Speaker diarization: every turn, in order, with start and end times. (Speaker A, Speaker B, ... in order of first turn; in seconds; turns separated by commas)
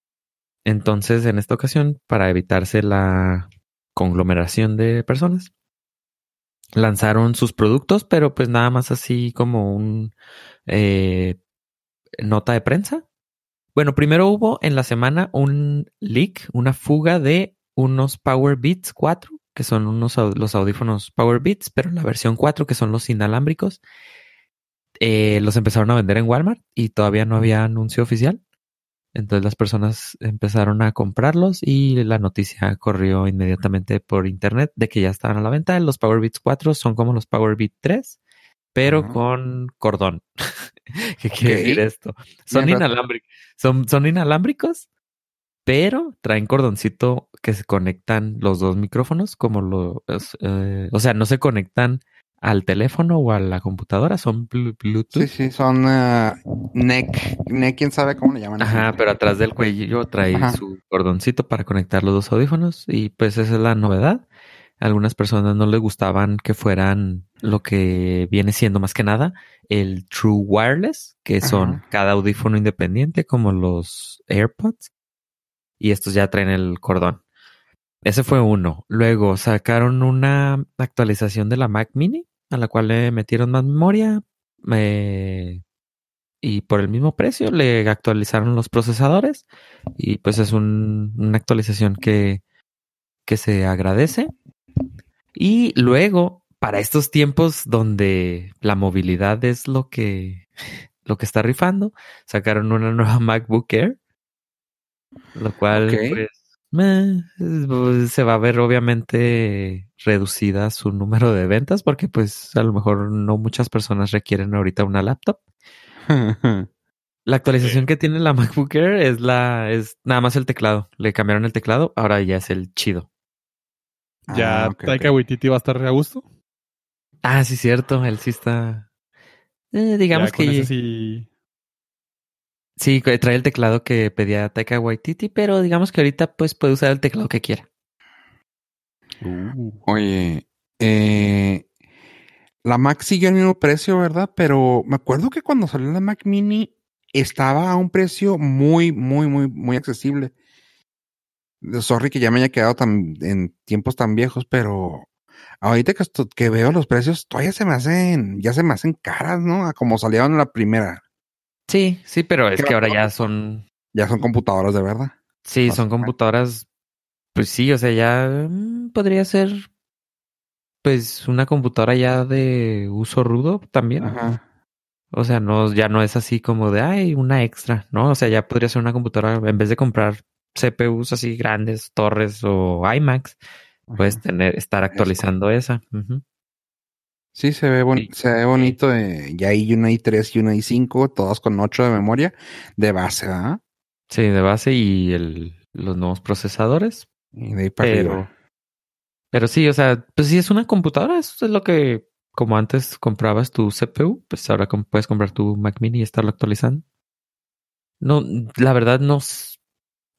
Speaker A: 0.7-5.5, Speaker A: 6.8-10.1, Speaker A: 10.7-11.4, Speaker A: 12.2-13.0, Speaker A: 13.8-23.8, Speaker A: 25.0-28.4, Speaker A: 29.1-38.2, Speaker A: 38.7-40.2, Speaker B: 38.9-39.2, Speaker A: 41.0-44.9, Speaker B: 41.4-41.8, Speaker B: 42.5-42.9, Speaker A: 45.7-55.3, Speaker B: 55.1-59.0, Speaker A: 58.6-64.2, Speaker B: 60.3-60.6, Speaker A: 64.8-74.9, Speaker B: 71.4-71.8, Speaker A: 75.8-77.2, Speaker A: 78.0-85.6, Speaker A: 86.4-92.4, Speaker A: 93.2-94.3, Speaker A: 95.3-100.5, Speaker A: 101.0-104.0, Speaker A: 105.3-115.4, Speaker B: 105.7-106.2, Speaker B: 116.1-116.7, Speaker A: 117.3-123.1, Speaker C: 117.6-117.8, Speaker B: 124.3-125.1, Speaker C: 124.3-126.2, Speaker A: 127.2-128.9, Speaker A: 129.7-130.7, Speaker C: 130.1-131.3, Speaker A: 132.8-137.7, Speaker C: 139.2-139.8, Speaker B: 139.9-141.7, Speaker B: 142.7-150.3, Speaker B: 151.6-155.1, Speaker B: 155.6-161.0, Speaker A: 161.7-163.6, Speaker B: 162.6-163.0, Speaker B: 163.9-165.1, Speaker A: 165.5-166.7, Speaker B: 165.7-166.1, Speaker A: 167.3-169.7, Speaker A: 170.8-174.2, Speaker B: 174.0-174.4, Speaker A: 175.1-183.4, Speaker B: 183.9-184.2, Speaker A: 184.0-186.2, Speaker B: 184.9-185.2, Speaker B: 187.3-193.6, Speaker A: 187.9-188.8, Speaker A: 194.1-197.1, Speaker B: 197.3-198.2, Speaker A: 197.8-198.3, Speaker A: 199.3-206.8, Speaker A: 208.0-209.6